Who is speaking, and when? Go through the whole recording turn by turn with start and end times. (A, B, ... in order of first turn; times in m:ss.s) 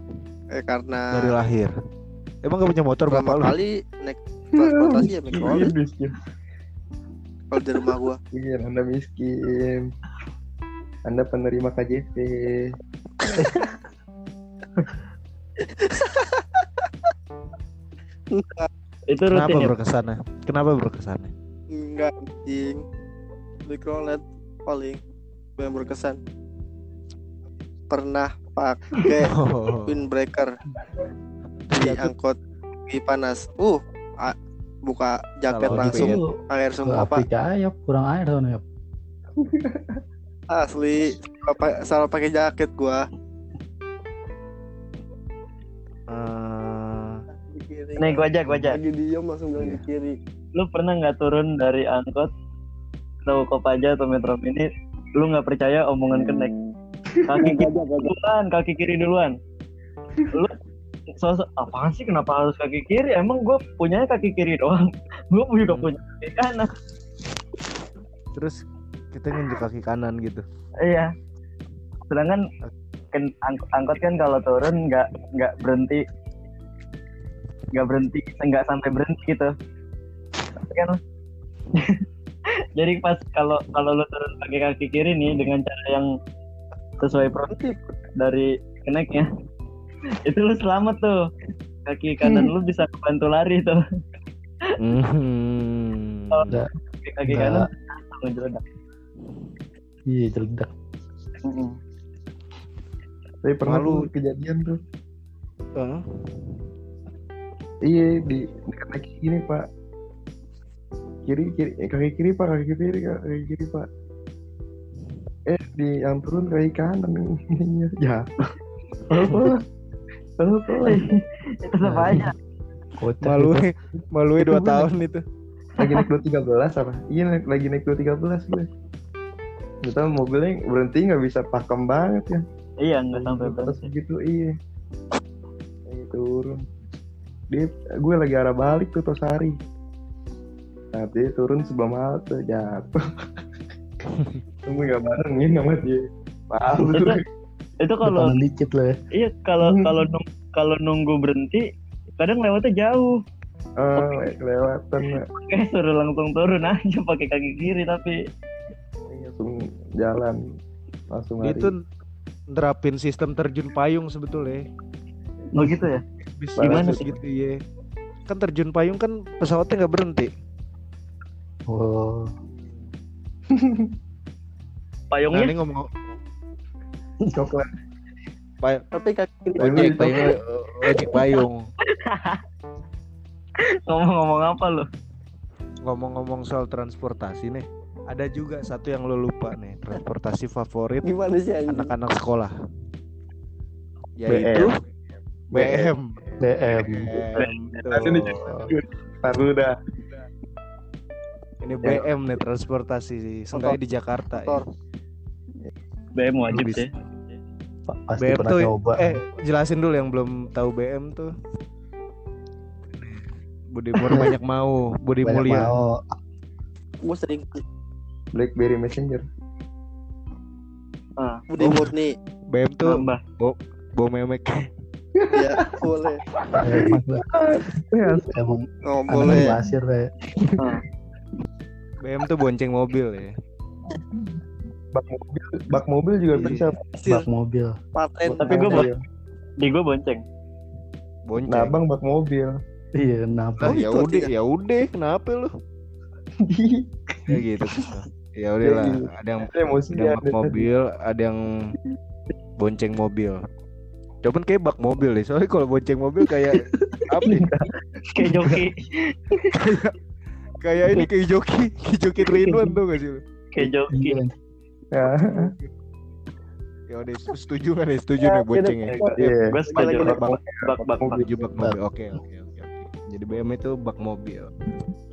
0:00.5-0:01.4 A
0:01.1-0:01.7 B
0:02.4-0:03.5 B
0:03.1-0:05.7 A
0:04.6-0:06.2 C
0:07.5-0:08.2 A
0:08.3-0:09.9 C
0:11.0-0:12.7 C
0:13.4-0:13.7 D
0:15.6-0:16.4 A
0:18.3-0:18.7 A
0:19.1-0:19.7 E
0:19.3-0:21.3 B
0:21.7-0:22.8 A
0:23.6-0:25.0 A
0:25.6-0:26.2 A
0:27.9-0:30.5 A
0:29.2-0:30.1 B
0:31.7-0:37.2 A
0:31.8-0:32.1 B
0:35.5-0:36.2 B
0:35.7-0:38.6 D
0:39.4-0:40.0 C
0:40.5-0:43.0 A
0:46.1-0:47.2 B
0:47.4-0:50.2 A
0:48.0-0:48.8 E
0:50.6-0:52.3 E
0:53.2-0:54.7 E
0:55.2-0:56.5 E
0:57.2-0:59.3 E
0:57.4-0:58.1 A
1:01.2-1:06.7 E
1:08.3-1:08.6 B
1:09.1-1:10.4 B
1:10.8-1:11.1 E
1:12.1-1:12.4 E
1:13.1-1:16.0 E
1:17.7-1:19.5 E
1:20.6-1:21.0 E
1:21.7-1:22.0 E
1:22.8-1:26.1 E
1:27.0-1:27.6 E
1:27.4-1:27.8 A
1:28.2-1:29.3 E
1:30.2-1:31.2 E
1:31.9-1:33.8 E
1:34.8-1:36.6 B
1:37.0-1:38.6 E
1:37.3-1:37.7 D
1:40.1-1:40.7 D
1:41.4-1:41.8 E
1:43.4-1:44.8 C
1:43.7-1:44.1 B
1:45.8-1:46.6 B
1:47.8-1:49.7 C
1:51.2-1:53.9 C
1:55.5-1:58.3 C
1:59.1-1:59.6 C
2:00.4-2:01.2 C
2:00.8-2:02.3 E
2:01.8-2:02.3 D
2:03.0-2:03.6 D
2:03.2-2:05.2 B
2:04.5-2:04.8 C
2:05.8-2:08.7 C
2:09.8-2:12.4 C
2:12.8-2:13.9 E
2:13.1-2:14.5 C
2:15.9-2:16.6 C
2:17.5-2:19.6 C
2:20.9-2:23.0 C
2:24.6-2:27.2 C
2:26.9-2:27.2 E
2:27.8-2:28.4 E
2:28.0-2:29.0 D
2:29.1-2:31.6 E
2:29.6-2:30.1 C
2:32.2-2:33.2 E
2:33.8-2:35.2 C
2:35.3-2:38.2 E
2:39.1-2:40.4 C
2:41.1-2:41.7 C
2:41.4-2:41.8 B
2:42.5-2:44.6 B
2:45.5-2:46.0 E
2:45.6-2:45.9 D
2:46.4-2:47.5 B
2:46.6-2:47.1 C
2:46.6-2:47.0 E
2:48.3-2:50.3 B
2:51.7-2:52.3 D
2:53.5-2:53.9 C
2:55.1-2:55.5 E
2:55.3-2:55.9 B
2:57.2-2:57.5 D
2:57.3-2:57.7 C
2:58.9-2:59.9 A
2:59.6-3:00.4 C
2:59.6-3:01.7 B
3:01.9-3:02.4 E
3:03.9-3:04.8 E
3:05.8-3:11.1 B
3:11.0-3:11.9 A
3:11.7-3:12.5 B
3:14.2-3:14.7 B
3:14.3-3:14.7 C
3:15.5-3:18.7 B
3:15.5-3:16.5 C
3:16.4-3:17.2 D
3:17.4-3:17.8 E
3:17.9-3:19.7 C
3:21.6-3:24.6 B
3:23.5-3:23.8 A
3:24.3-3:24.6 A
3:26.2-3:26.9 E
3:26.5-3:27.0 B
3:27.9-3:29.2 D
3:28.2-3:31.3 B
3:32.9-3:35.8 B
3:35.2-3:36.0 D
3:37.0-3:37.6 A
3:38.3-3:39.2 C
3:41.5-3:42.1 A
3:41.6-3:41.9 B
3:42.5-3:44.7 B
3:42.8-3:43.2 E
3:45.2-3:45.7 C
3:45.3-3:46.2 A
3:46.4-3:48.3 C
3:46.6-3:47.2 D
3:48.2-3:50.1 D
3:48.8-3:49.6 A
3:49.2-3:49.6 C
3:52.0-3:53.3 B
3:54.9-3:56.8 C
3:56.4-3:56.7 B
3:57.0-3:57.3 A
3:57.0-3:57.7 D
3:58.0-3:58.4 A
3:58.2-3:58.9 D
3:58.3-3:59.0 C
3:58.4-3:58.9 E
3:59.6-4:00.2 E
4:01.3-4:01.7 B
4:01.4-4:02.6 C
4:03.0-4:03.8 D
4:03.6-4:05.5 B
4:03.6-4:04.3 A
4:06.4-4:07.2 C
4:07.3-4:11.7 B
4:08.6-4:10.7 C
4:12.6-4:13.4 B
4:14.2-4:17.5 B
4:16.5-4:17.5 D
4:17.2-4:18.5 C
4:18.1-4:19.5 E
4:19.5-4:20.0 B
4:20.6-4:23.2 B
4:23.5-4:24.2 E
4:23.9-4:24.3 D
4:24.9-4:25.5 C
4:25.0-4:25.7 B
4:26.9-4:30.4 B
4:28.3-4:31.2 E
4:28.9-4:31.3 C
4:31.2-4:34.5 B